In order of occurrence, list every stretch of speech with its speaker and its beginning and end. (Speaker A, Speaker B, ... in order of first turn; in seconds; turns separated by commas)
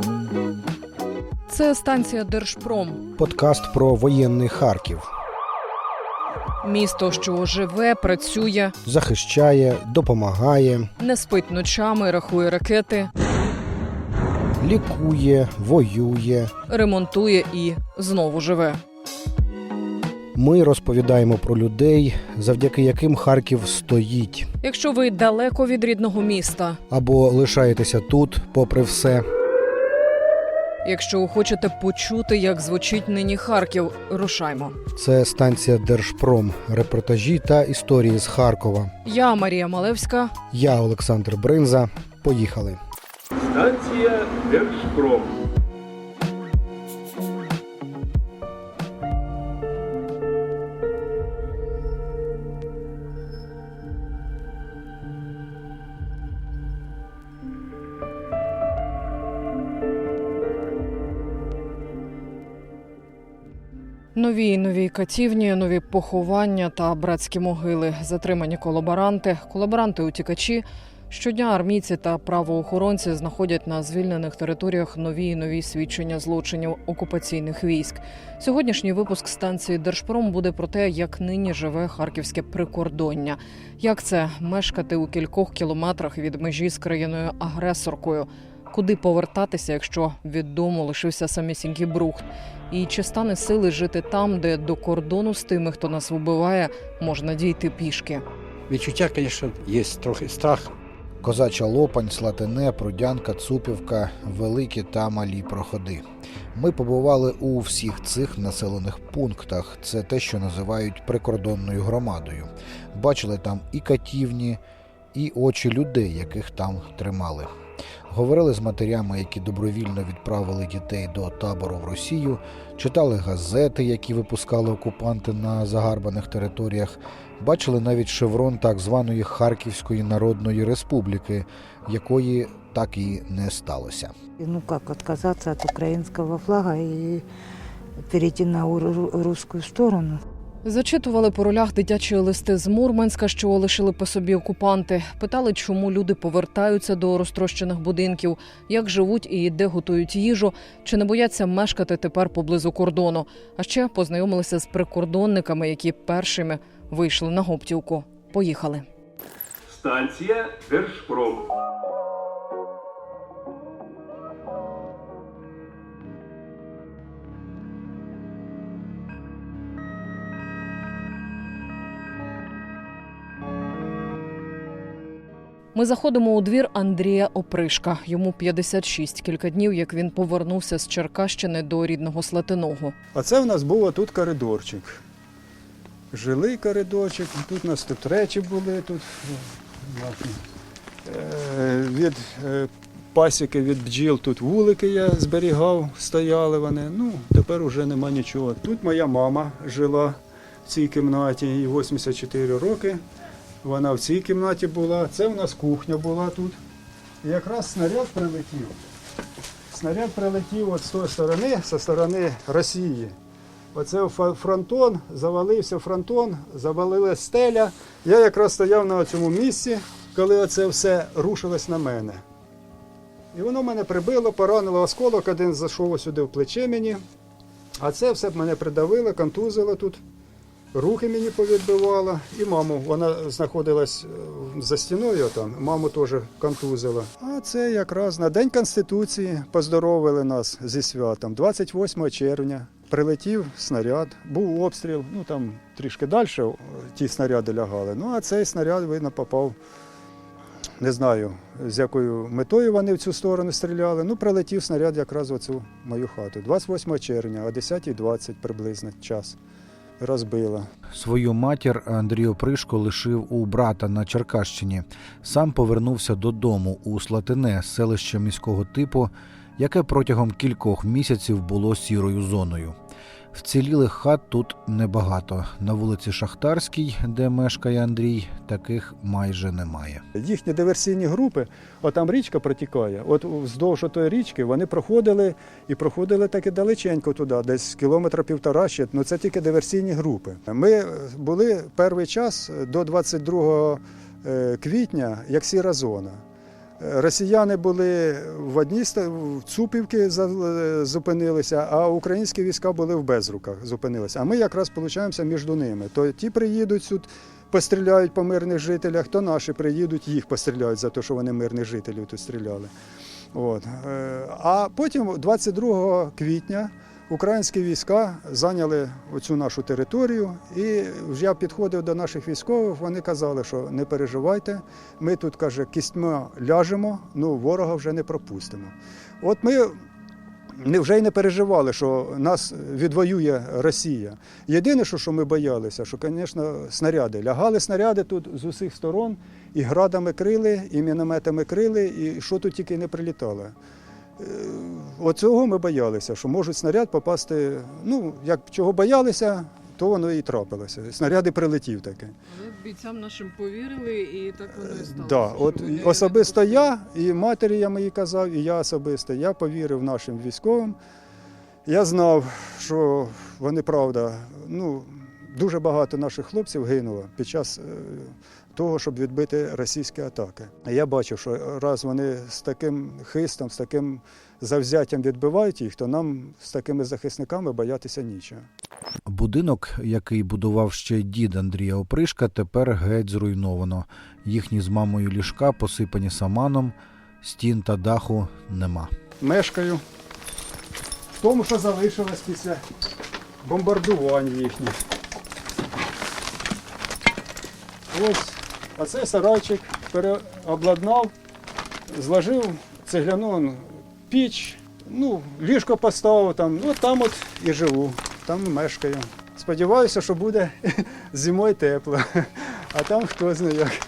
Speaker A: 1.5-3.0, Speaker B: 3.2-5.1, Speaker A: 6.6-8.8, Speaker B: 8.8-10.9, Speaker A: 11.0-13.1, Speaker B: 14.6-16.5, Speaker A: 16.7-18.8, Speaker B: 20.4-24.5, Speaker A: 24.6-26.8, Speaker B: 26.9-29.2, Speaker A: 30.9-34.8, Speaker B: 35.0-38.9, Speaker A: 39.0-40.3, Speaker B: 40.5-42.8, Speaker A: 43.4-45.3, Speaker A: 64.2-98.2, Speaker C: 98.7-100.7, Speaker B: 101.2-114.6, Speaker B: 115.1-117.5, Speaker B: 118.1-134.1, Speaker D: 134.4-137.2, Speaker D: 138.1-140.2, Speaker A: 140.7-158.9, Speaker A: 159.7-161.4, Speaker A: 175.7-182.9, Speaker E: 183.1-185.0, Speaker E: 186.1-190.4, Speaker E: 191.1-203.0, Speaker E: 203.6-206.6, Speaker E: 207.2-208.8, Speaker E: 209.7-213.2, Speaker E: 213.7-222.2, Speaker E: 223.3-227.0, Speaker E: 227.8-230.0, Speaker E: 230.7-249.6, Speaker E: 250.8-259.4, Speaker E: 260.0-260.7, Speaker B: 260.9-272.8, Speaker B: 273.3-280.0, Speaker E: 280.1-296.2, Speaker E: 296.8-312.7, Speaker E: 313.3-329.8, Speaker E: 330.6-343.5, Speaker E: 344.2-352.2, Speaker A: 352.4-356.3, Speaker E: 354.7-360.8, Speaker E: 361.7-378.5, Speaker B: 379.1-388.9, Speaker E: 389.2-389.8, Speaker E: 391.2-392.6, Speaker E: 393.4-394.7, Speaker E: 397.9-401.1, Speaker E: 401.9-413.7